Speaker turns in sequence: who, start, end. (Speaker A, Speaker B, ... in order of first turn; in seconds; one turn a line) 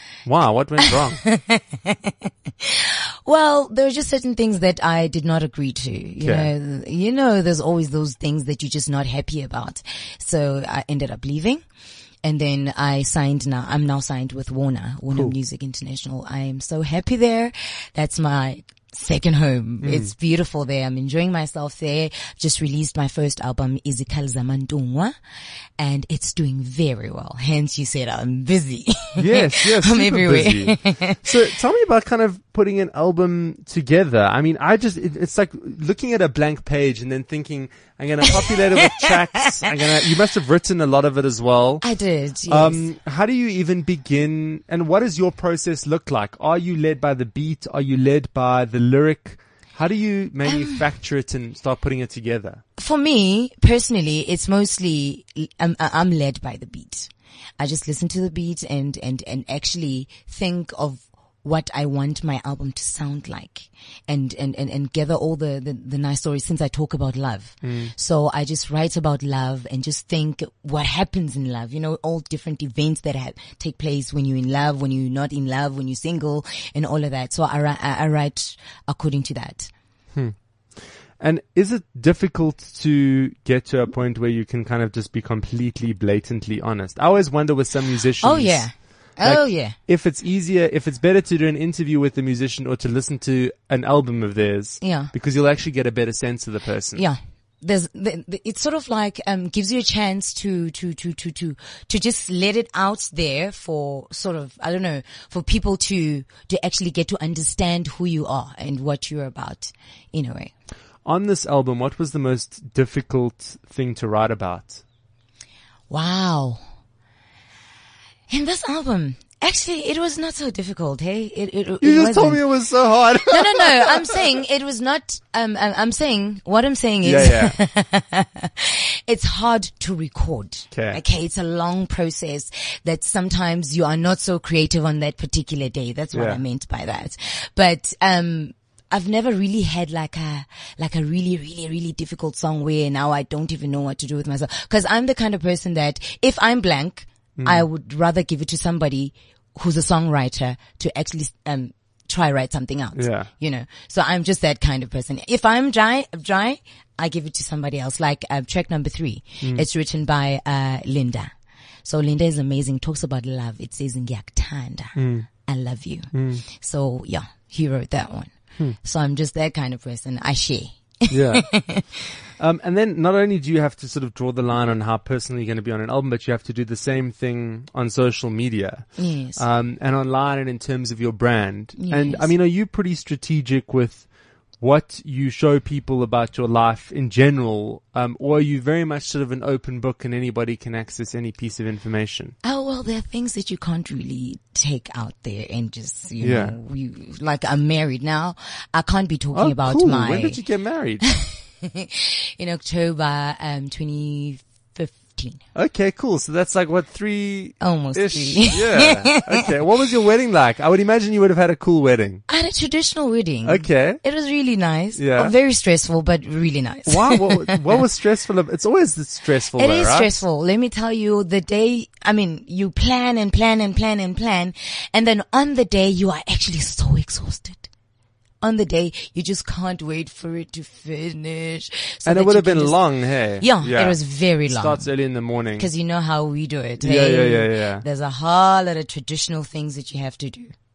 Speaker A: 0.3-1.2
Speaker B: 0.8-11.6
Speaker A: 6.2-6.5
Speaker B: 12.2-25.1
Speaker A: 19.8-20.1
Speaker B: 25.8-31.3
Speaker A: 29.2-41.8
Speaker B: 38.3-39.1
Speaker B: 41.8-42.9
Speaker A: 42.5-52.6
Speaker B: 50.4-50.9
Speaker B: 52.8-79.7
Speaker A: 67.6-67.9
Speaker A: 81.2-88.7
Speaker B: 88.2-89.8
Speaker A: 89.2-97.0
Speaker B: 94.8-95.1
Speaker B: 97.0-110.5
Speaker A: 111.0-114.8
Speaker B: 115.9-116.6
Speaker B: 118.3-122.5
Speaker A: 121.8-124.2
Speaker B: 123.3-161.3
Speaker A: 127.0-127.5
Speaker A: 130.7-131.0
Speaker A: 136.1-136.4
Speaker A: 147.4-147.7
Speaker A: 153.0-153.3
Speaker A: 159.4-159.7
Speaker B: 161.8-172.0
Speaker A: 165.0-165.3
Speaker A: 166.1-166.4
Speaker A: 171.1-171.5
Speaker A: 172.4-184.1
Speaker B: 179.0-179.4
Speaker B: 181.8-182.3
Speaker A: 184.6-192.3
Speaker B: 192.4-200.4
Speaker A: 196.2-196.6
Speaker A: 199.3-201.1
Speaker B: 201.0-205.4
Speaker A: 205.6-212.2
Speaker B: 207.6-209.5
Speaker B: 212.3-217.6
Speaker A: 213.4-214.0
Speaker A: 215.0-215.3
Speaker A: 216.9-220.1
Speaker B: 219.6-227.7
Speaker B: 228.4-232.8
Speaker A: 232.1-235.7
Speaker B: 233.4-234.9
Speaker B: 235.6-240.5
Speaker A: 236.8-237.8